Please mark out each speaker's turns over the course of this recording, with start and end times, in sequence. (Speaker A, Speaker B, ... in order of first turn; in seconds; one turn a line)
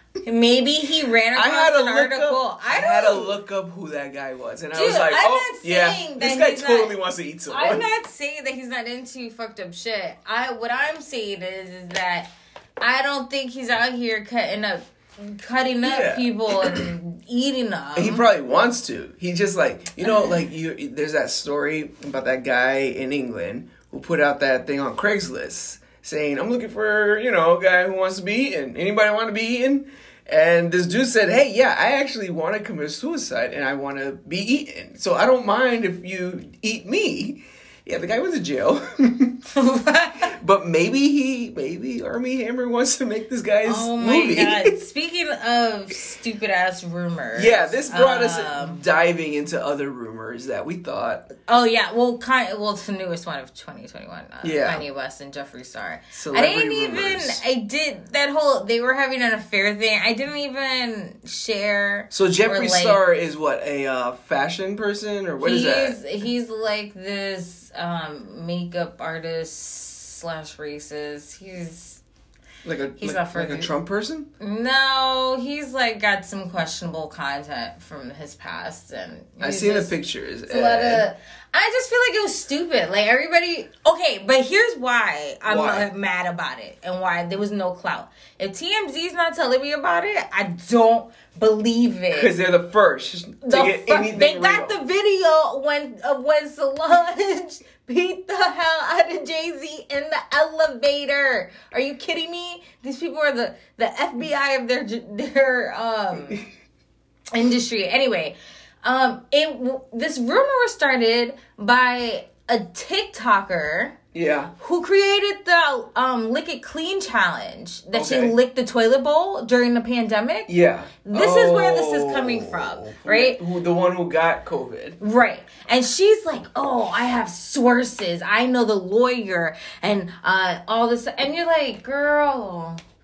Speaker A: 0.2-3.3
Speaker B: 1.3-7.8
Speaker A: 4.7-7.0
Speaker A: 7.5-12.3
Speaker A: 12.8-18.3
Speaker B: 15.8-16.9
Speaker B: 17.9-39.4
Speaker A: 20.0-20.4
Speaker A: 39.5-40.3
Speaker B: 40.2-44.7
Speaker A: 43.6-48.8
Speaker B: 47.3-51.3
Speaker A: 51.5-63.0
Speaker B: 54.4-54.8
Speaker B: 56.1-57.4
Speaker B: 62.1-66.0
Speaker A: 65.4-72.0
Speaker B: 72.6-74.3
Speaker A: 73.0-73.7
Speaker A: 74.4-92.3
Speaker B: 79.4-81.1
Speaker B: 85.5-85.9
Speaker B: 92.1-94.8
Speaker A: 93.4-106.5
Speaker A: 107.3-113.9
Speaker B: 114.1-114.5
Speaker A: 114.6-120.5
Speaker B: 117.9-118.3
Speaker B: 120.5-125.0
Speaker A: 121.0-123.4
Speaker A: 125.0-132.8